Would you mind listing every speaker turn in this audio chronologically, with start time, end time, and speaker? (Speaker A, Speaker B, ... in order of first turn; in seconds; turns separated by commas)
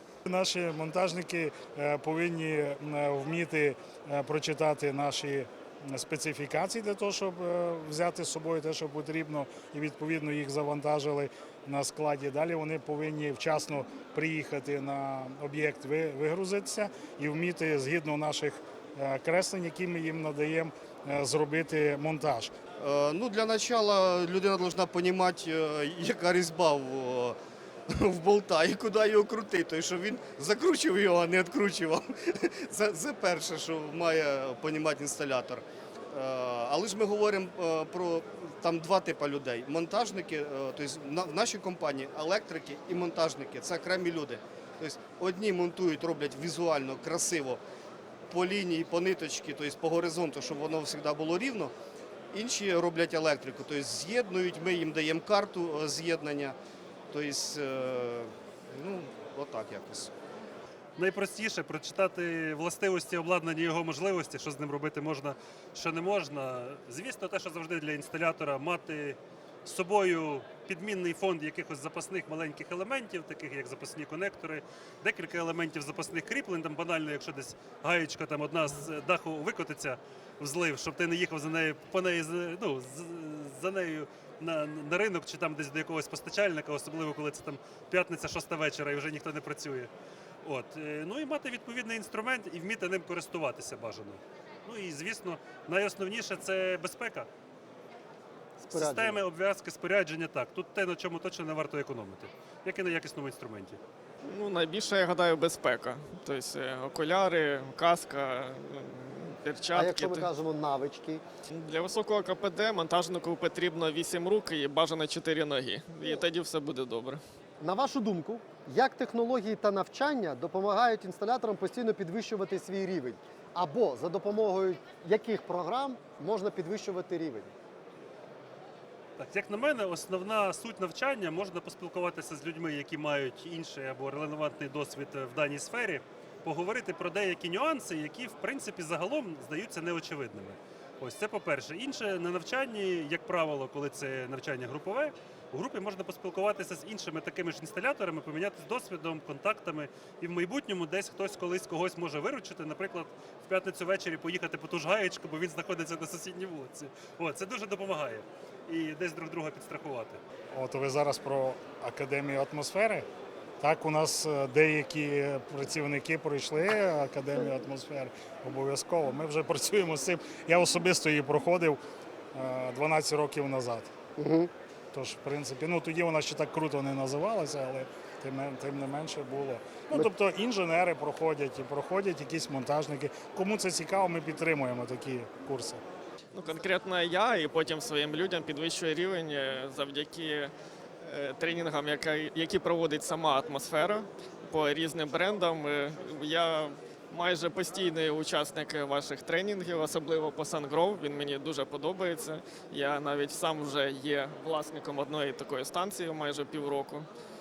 Speaker A: 0.2-22.5, Speaker B: 22.8-27.4, Speaker B: 27.9-47.6, Speaker B: 48.3-51.7, Speaker B: 52.3-56.5, Speaker B: 57.1-60.1, Speaker C: 61.0-89.9, Speaker C: 90.4-97.3, Speaker D: 98.6-99.2, Speaker C: 98.7-103.8, Speaker E: 104.2-110.3, Speaker D: 109.7-111.2, Speaker E: 111.5-117.2, Speaker D: 117.6-127.5, Speaker C: 129.2-160.2, Speaker A: 160.5-163.1, Speaker A: 163.6-171.8, Speaker A: 172.3-173.9, Speaker D: 174.2-174.5, Speaker A: 174.9-185.8, Speaker E: 186.3-207.1